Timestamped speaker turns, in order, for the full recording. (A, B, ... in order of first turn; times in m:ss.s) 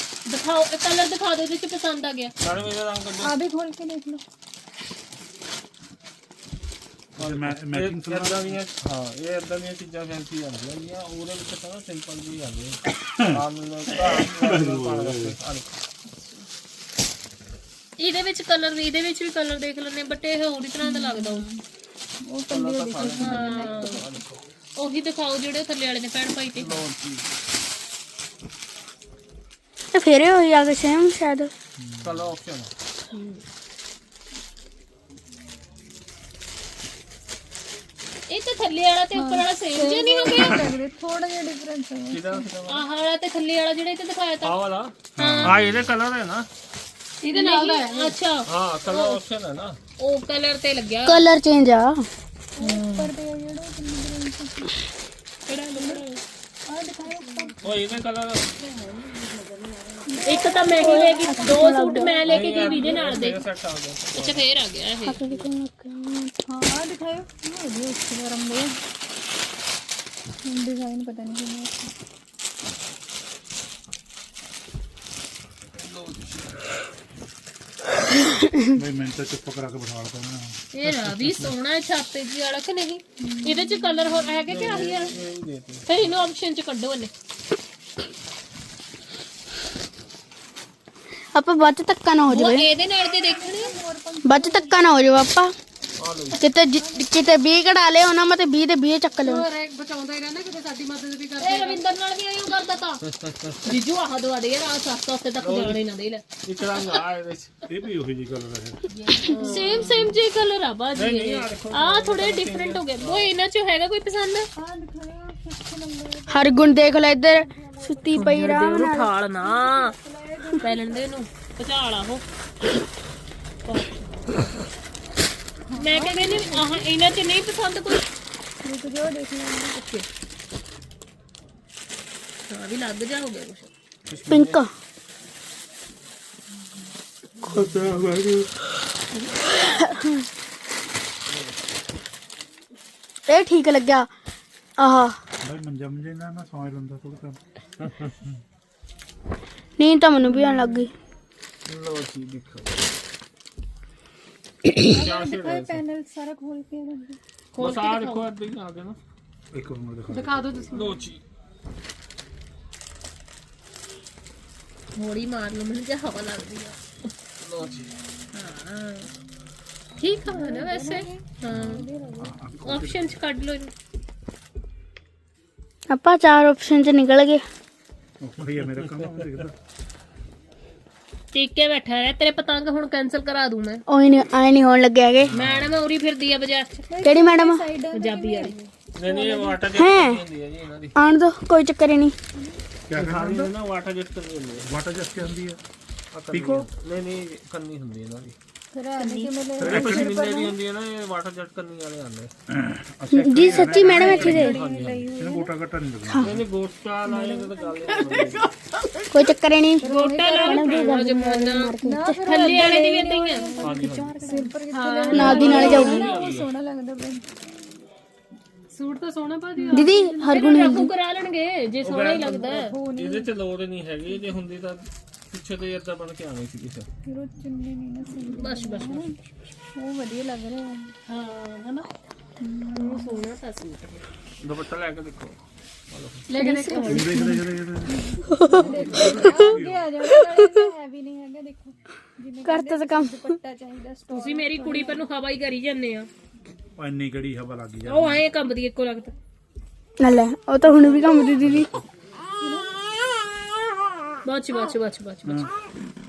0:00.3-0:02.3 A
0:02.4-0:03.4 B
0:03.2-0:04.2 C
0:07.2-0:08.6 D
0:07.2-0:15.7 B
0:12.9-0:13.4 D
0:13.9-0:15.4 D
0:18.0-0:21.5 A
0:20.9-0:21.5 C
0:22.2-0:24.2 C
0:22.5-0:24.4 B
0:23.0-0:24.0 A
0:24.8-0:26.8 A
0:26.6-0:27.3 B
0:29.9-0:31.5 E
0:31.8-0:32.3 D
0:32.0-0:32.7 B
0:38.3-0:40.6 A
0:39.1-0:42.5 C
0:42.1-0:42.8 B
0:42.7-0:44.6 A
0:44.4-0:46.5 B
0:45.2-0:45.7 D
0:45.2-0:45.6 A
0:47.2-0:48.1 F
0:47.3-0:49.2 A
0:48.4-0:49.8 B
0:50.0-0:51.2 A
0:51.0-0:52.0 E
0:52.6-0:54.7 C
0:52.6-0:53.0 A
0:55.5-0:56.2 A
0:55.8-0:56.0 C
0:56.7-0:57.8 C
0:57.6-0:58.6 B
1:00.0-1:03.1 C
1:00.2-1:03.5 A
1:00.7-1:02.3 E
1:02.2-1:04.4 B
1:04.1-1:05.2 A
1:05.0-1:06.3 E
1:06.5-1:08.8 C
1:10.4-1:11.9 C
1:15.8-1:16.5 B
1:18.7-1:20.6 D
1:20.7-1:25.2 A
1:23.2-1:23.8 C
1:24.5-1:25.8 B
1:25.8-1:27.1 A
1:31.3-1:32.6 E
1:32.3-1:33.7 A
1:33.2-1:34.7 C
1:34.2-1:35.5 E
1:36.0-1:36.4 B
1:36.3-1:39.4 E
1:36.8-1:37.0 C
1:39.2-1:41.8 F
1:41.4-1:43.0 A
1:43.0-1:43.6 B
1:43.6-1:46.2 A
1:45.4-1:45.8 B
1:46.4-1:47.5 B
1:47.7-1:48.8 D
1:48.9-1:54.5 A
1:49.2-1:50.1 F
1:50.9-1:53.3 B
1:54.6-1:56.7 C
1:56.3-1:59.0 E
1:57.4-1:58.4 C
1:58.1-1:59.9 A
1:59.4-2:01.1 C
2:00.6-2:02.2 A
2:03.6-2:04.4 A
2:05.7-2:06.9 C
2:05.8-2:08.0 A
2:08.6-2:09.8 C
2:09.7-2:10.0 A
2:12.5-2:13.7 A
2:14.0-2:14.6 B
2:14.3-2:14.7 E
2:17.5-2:18.5 D
2:21.3-2:21.6 B
2:23.3-2:24.1 E
2:24.8-2:25.2 E
2:25.4-2:27.4 D
2:27.8-2:28.1 B
2:29.8-2:30.9 E
2:31.7-2:32.8 B
2:34.8-2:37.2 C
2:34.8-2:35.8 B
2:37.5-2:38.3 A
2:37.6-2:39.0 B
2:39.5-2:40.4 D
2:40.1-2:41.0 F
2:40.7-2:41.2 B
2:45.0-2:46.8 A
2:47.4-2:47.9 B
2:48.3-2:49.1 A
2:50.0-2:51.8 A
2:50.2-2:52.3 C
2:52.2-2:53.1 D
2:52.6-2:53.7 A
2:55.9-2:57.4 E
2:58.2-2:59.5 D
3:01.3-3:03.8 A
3:03.9-3:05.3 E
3:05.3-3:05.7 B
3:05.3-3:06.8 A
3:06.8-3:09.6 C
3:07.0-3:07.6 E
3:07.9-3:08.5 A
3:09.0-3:10.9 B
3:09.7-3:10.2 E
3:11.0-3:12.1 E
3:12.9-3:13.5 D
3:12.9-3:14.7 B
3:14.6-3:15.6 D
3:16.1-3:18.4 B
3:16.3-3:16.7 D
3:18.7-3:20.6 C
3:19.6-3:20.2 D
3:19.6-3:22.3 B
3:22.5-3:24.4 D
3:23.1-3:24.6 E
3:23.4-3:25.1 B
3:23.7-3:25.6 C
3:23.9-3:24.2 A
3:25.1-3:26.3 D
3:26.0-3:26.4 E
3:26.2-3:28.5 B
3:27.0-3:28.3 C
3:28.0-3:29.2 F
3:29.1-3:32.8 E
3:29.8-3:31.2 C
3:29.8-3:33.6 A
3:31.8-3:37.2 C
3:33.6-3:34.3 B
3:34.7-3:36.2 F
3:35.1-3:36.0 E
3:35.2-3:35.8 A
3:35.4-3:36.5 B
3:38.7-3:40.1 F
3:39.6-3:42.7 A
3:39.7-3:40.9 E
3:41.8-3:46.9 B
3:42.3-3:43.3 C
3:47.0-3:49.2 C
3:48.3-3:49.1 A
3:49.7-3:50.9 C
3:51.1-3:51.9 F
3:52.4-3:53.2 C
3:52.6-3:54.0 A
3:54.4-3:56.2 B
3:56.3-3:57.2 F
3:56.3-3:57.0 A
3:56.4-4:05.0 C
3:56.9-3:59.9 D
3:58.3-3:58.7 E
4:00.1-4:00.7 E
4:02.4-4:03.3 E
4:04.1-4:06.1 A
4:06.8-4:08.2 D
4:07.8-4:09.1 A
4:10.0-4:11.7 E
4:12.4-4:12.8 C
4:14.2-4:15.5 A
4:15.2-4:15.5 D